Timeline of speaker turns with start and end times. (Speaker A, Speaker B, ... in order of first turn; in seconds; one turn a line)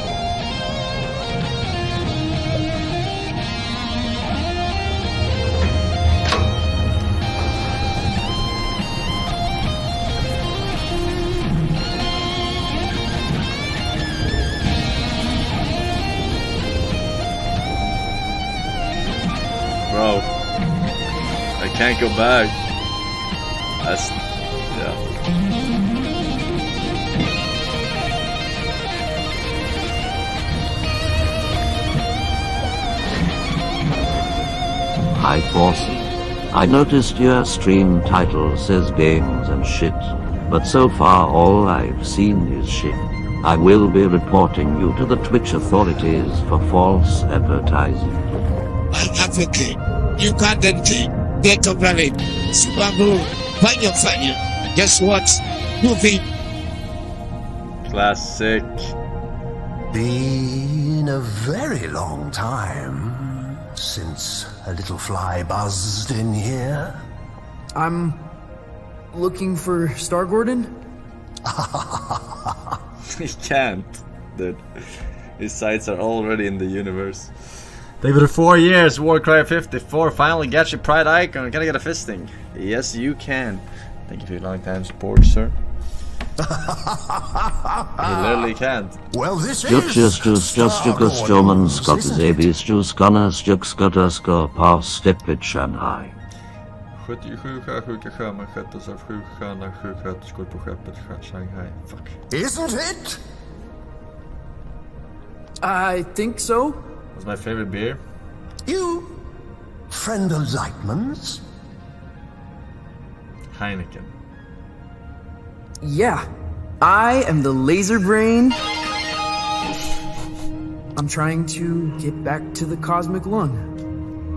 Speaker A: 19.9-20.3
Speaker A: 21.6-22.6
Speaker A: 23.8-24.2
Speaker A: 24.7-25.0
Speaker B: 35.1-48.2
Speaker C: 48.9-56.2
Speaker A: 57.8-58.9
Speaker D: 59.9-67.0
Speaker E: 67.8-68.2
Speaker E: 69.1-70.8
Speaker D: 71.5-72.7
Speaker A: 73.2-77.3
Speaker A: 78.0-85.6
Speaker D: 86.4-88.5
Speaker A: 88.0-89.0
Speaker D: 89.1-92.5
Speaker B: 89.6-96.1
Speaker A: 97.0-102.2
Speaker D: 102.3-103.2
Speaker E: 105.6-106.8
Speaker A: 107.1-108.0
Speaker D: 108.7-109.3
Speaker D: 109.9-111.4
Speaker A: 113.5-114.1
Speaker E: 115.8-116.3
Speaker E: 116.8-118.6
Speaker E: 121.0-123.7